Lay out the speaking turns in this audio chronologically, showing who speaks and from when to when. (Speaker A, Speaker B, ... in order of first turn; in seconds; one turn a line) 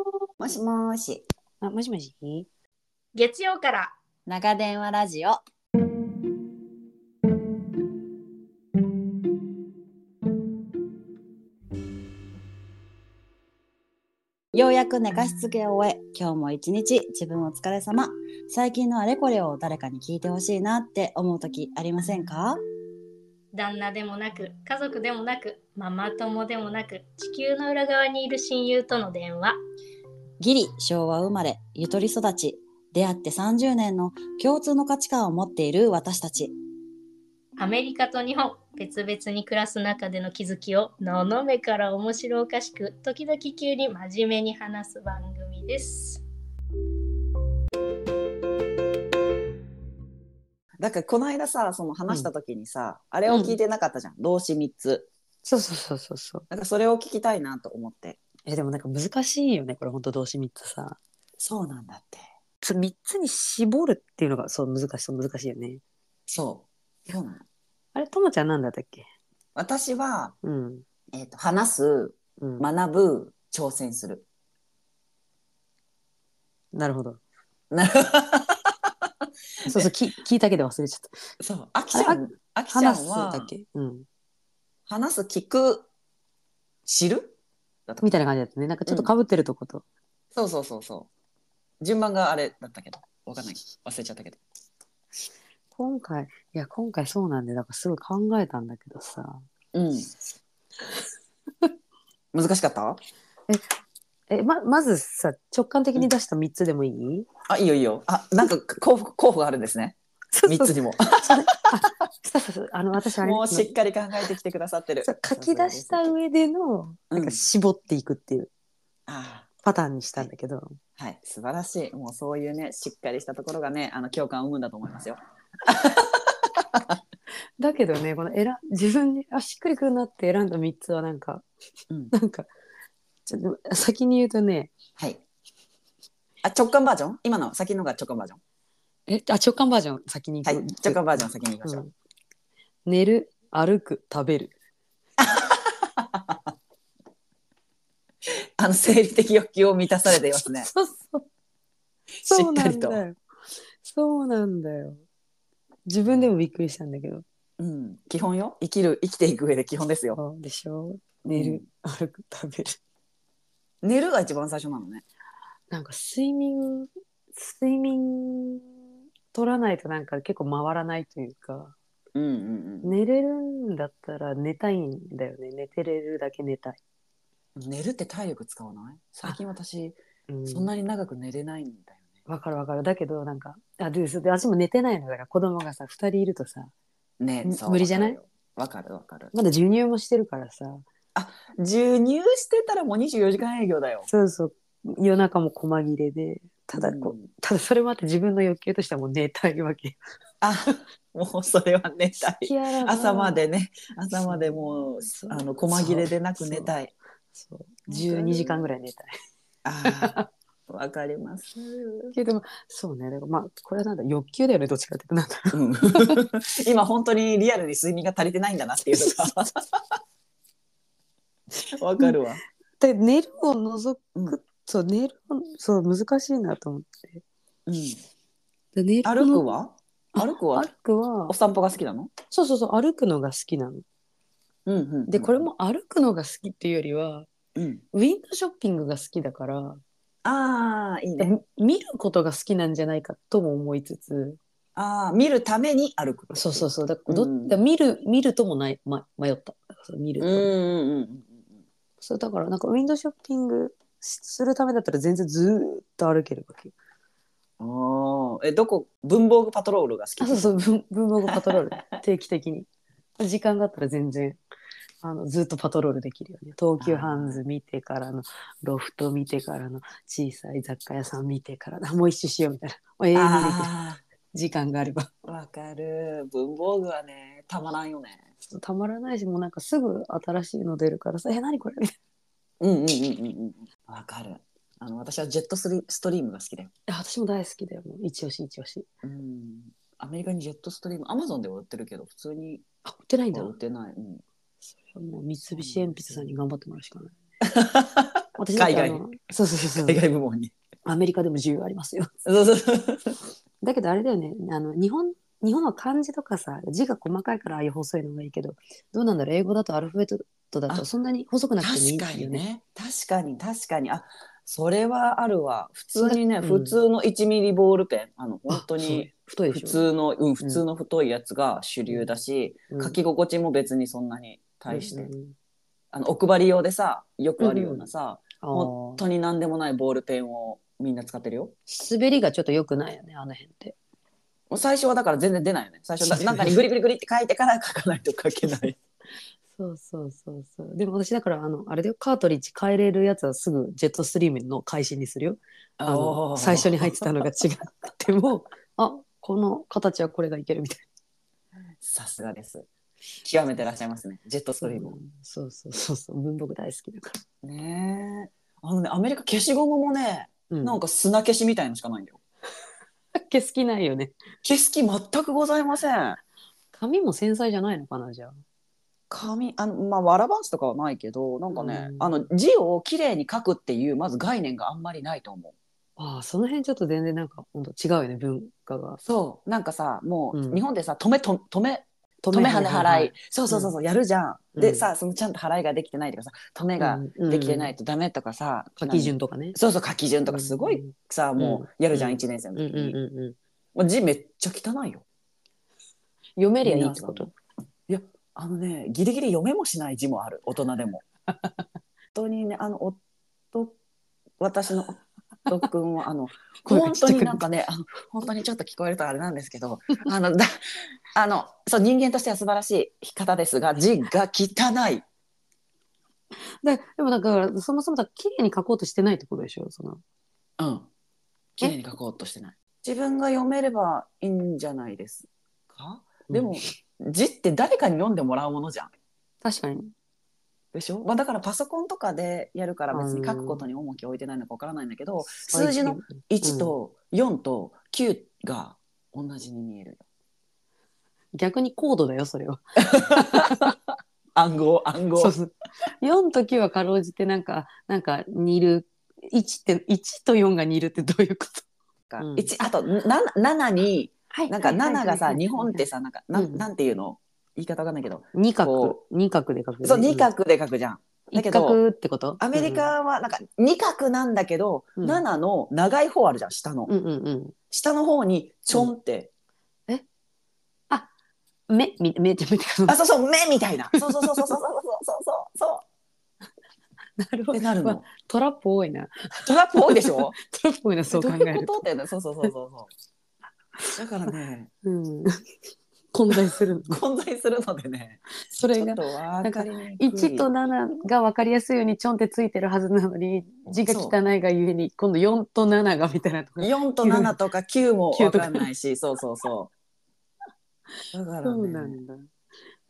Speaker A: 0.4-1.2
Speaker B: 1.6-2.5
Speaker C: 3.1-3.9
Speaker A: 4.3-5.4
Speaker A: 14.5-22.6
Speaker C: 23.5-29.6
Speaker A: 30.4-36.5
Speaker C: 37.6-46.2
Speaker D: 50.8-55.1
Speaker B: 53.3-53.6
Speaker B: 55.5-56.5
Speaker D: 56.5-58.2
Speaker B: 58.5-61.0
Speaker D: 61.4-62.3
Speaker B: 62.6-65.8
Speaker D: 66.3-67.4
Speaker B: 68.0-69.1
Speaker D: 69.5-70.3
Speaker B: 70.4-70.8
Speaker D: 71.1-74.3
Speaker B: 72.4-72.7
Speaker B: 76.7-77.2
Speaker D: 77.7-78.9
Speaker B: 79.7-81.2
Speaker D: 81.4-83.5
Speaker B: 81.9-84.1
Speaker D: 84.9-85.9
Speaker D: 86.9-87.4
Speaker B: 88.0-89.8
Speaker D: 88.9-89.1
Speaker D: 90.3-91.1
Speaker D: 91.8-94.4
Speaker B: 95.8-99.5
Speaker D: 99.7-100.1
Speaker D: 102.3-103.0
Speaker B: 104.3-107.3
Speaker D: 107.5-111.5
Speaker B: 110.3-113.7
Speaker D: 113.2-116.1
Speaker B: 115.0-118.5
Speaker D: 117.1-117.4
Speaker D: 119.1-119.5
Speaker B: 119.6-120.8
Speaker D: 121.0-127.0
Speaker B: 127.6-131.4
Speaker B: 132.1-132.5
Speaker B: 133.3-134.7
Speaker D: 136.4-138.4
Speaker B: 139.1-141.9
Speaker D: 140.4-141.8
Speaker B: 142.9-144.5
Speaker D: 145.2-146.4
Speaker D: 148.6-150.7
Speaker B: 150.5-151.2
Speaker D: 152.2-153.0
Speaker B: 152.3-153.2
Speaker B: 153.8-155.0
Speaker B: 155.9-157.2
Speaker D: 157.6-160.2
Speaker B: 160.2-162.8
Speaker D: 161.2-161.6
Speaker D: 163.8-165.0
Speaker B: 165.7-168.6
Speaker B: 169.3-171.8
Speaker D: 172.2-173.0
Speaker B: 172.8-176.8
Speaker D: 177.6-182.1
Speaker B: 180.3-180.7
Speaker B: 182.3-186.7
Speaker D: 187.2-189.3
Speaker B: 187.4-188.2
Speaker B: 189.3-190.8
Speaker D: 191.2-194.1
Speaker B: 194.1-200.0
Speaker D: 196.8-197.3
Speaker D: 200.4-206.9
Speaker B: 202.4-203.5
Speaker B: 204.3-206.7
Speaker B: 207.4-209.1
Speaker D: 207.9-208.7
Speaker D: 209.6-212.1
Speaker B: 209.8-210.3
Speaker B: 212.1-216.2
Speaker D: 215.5-219.8
Speaker D: 221.7-222.4
Speaker B: 222.8-227.2
Speaker D: 227.7-228.0
Speaker B: 228.8-229.5
Speaker D: 229.1-230.7
Speaker B: 230.2-231.3
Speaker D: 231.3-232.1
Speaker B: 232.3-233.8
Speaker D: 234.7-235.5
Speaker B: 235.1-237.3
Speaker D: 237.6-237.8
Speaker B: 237.9-239.8
Speaker D: 240.2-241.3
Speaker B: 241.2-244.4
Speaker D: 244.8-247.6
Speaker B: 246.3-250.5
Speaker D: 250.2-251.6
Speaker B: 252.0-256.7
Speaker D: 257.6-260.6
Speaker B: 260.2-262.7
Speaker D: 261.3-261.5
Speaker B: 263.2-264.4
Speaker B: 265.0-273.7
Speaker D: 266.8-267.4
Speaker D: 273.1-274.0
Speaker B: 274.3-275.1
Speaker D: 275.2-278.2
Speaker B: 278.4-281.9
Speaker D: 282.6-286.7
Speaker B: 286.9-288.9
Speaker D: 289.0-292.6
Speaker B: 292.9-293.5
Speaker D: 293.3-294.2
Speaker B: 294.9-297.1
Speaker D: 295.6-296.3
Speaker D: 297.4-299.0
Speaker B: 298.4-300.0
Speaker D: 299.7-300.5
Speaker B: 300.9-302.1
Speaker D: 302.2-303.1
Speaker B: 303.6-312.4
Speaker D: 311.6-325.1
Speaker B: 316.0-316.8
Speaker B: 318.5-319.9
Speaker B: 322.7-323.0
Speaker B: 324.7-325.3
Speaker D: 325.9-331.6
Speaker B: 327.4-327.9
Speaker B: 328.4-329.0
Speaker B: 331.7-333.8
Speaker D: 334.5-338.8
Speaker B: 336.1-336.6
Speaker B: 339.6-350.9
Speaker D: 345.8-347.1
Speaker D: 351.8-352.7
Speaker D: 353.2-355.0
Speaker B: 354.6-357.1
Speaker D: 357.4-362.2
Speaker B: 360.5-360.8
Speaker B: 363.1-364.1
Speaker D: 364.4-366.2
Speaker B: 366.7-368.4
Speaker D: 369.1-375.6
Speaker B: 371.5-372.1
Speaker B: 376.0-379.0
Speaker D: 379.0-393.0
Speaker B: 380.3-380.6
Speaker B: 382.2-383.7
Speaker B: 384.6-384.9
Speaker B: 386.8-387.7
Speaker B: 388.8-389.6
Speaker B: 390.3-393.4
Speaker D: 393.8-395.1
Speaker B: 396.4-397.3
Speaker D: 396.6-397.3
Speaker D: 397.9-401.0
Speaker D: 402.1-403.0
Speaker D: 404.4-410.5
Speaker B: 406.7-407.4
Speaker D: 411.1-415.1
Speaker B: 416.4-420.0
Speaker D: 420.6-420.9
Speaker D: 421.6-428.9
Speaker B: 426.3-426.6
Speaker B: 429.4-429.9
Speaker D: 430.7-440.1
Speaker B: 432.9-433.6
Speaker B: 435.5-436.7
Speaker B: 441.3-443.7
Speaker D: 442.8-443.8
Speaker D: 444.4-445.4
Speaker B: 445.2-451.7
Speaker D: 452.1-459.0
Speaker B: 452.2-452.5
Speaker B: 454.3-456.7
Speaker B: 458.3-460.3
Speaker D: 459.8-461.8
Speaker B: 461.3-462.9
Speaker D: 462.4-466.9
Speaker B: 465.0-465.2
Speaker B: 466.9-467.6
Speaker D: 467.7-469.3
Speaker B: 471.7-473.0
Speaker D: 472.9-475.8
Speaker B: 473.9-474.3
Speaker B: 477.2-481.8
Speaker D: 477.5-478.1
Speaker D: 479.4-480.4
Speaker D: 481.1-482.9
Speaker D: 483.9-484.7
Speaker B: 484.8-485.5
Speaker B: 486.1-487.0
Speaker D: 486.9-488.2
Speaker B: 488.4-497.3
Speaker D: 488.8-490.5
Speaker D: 493.8-494.2
Speaker D: 496.6-499.7
Speaker B: 498.1-498.7
Speaker D: 501.1-502.0
Speaker B: 501.4-502.3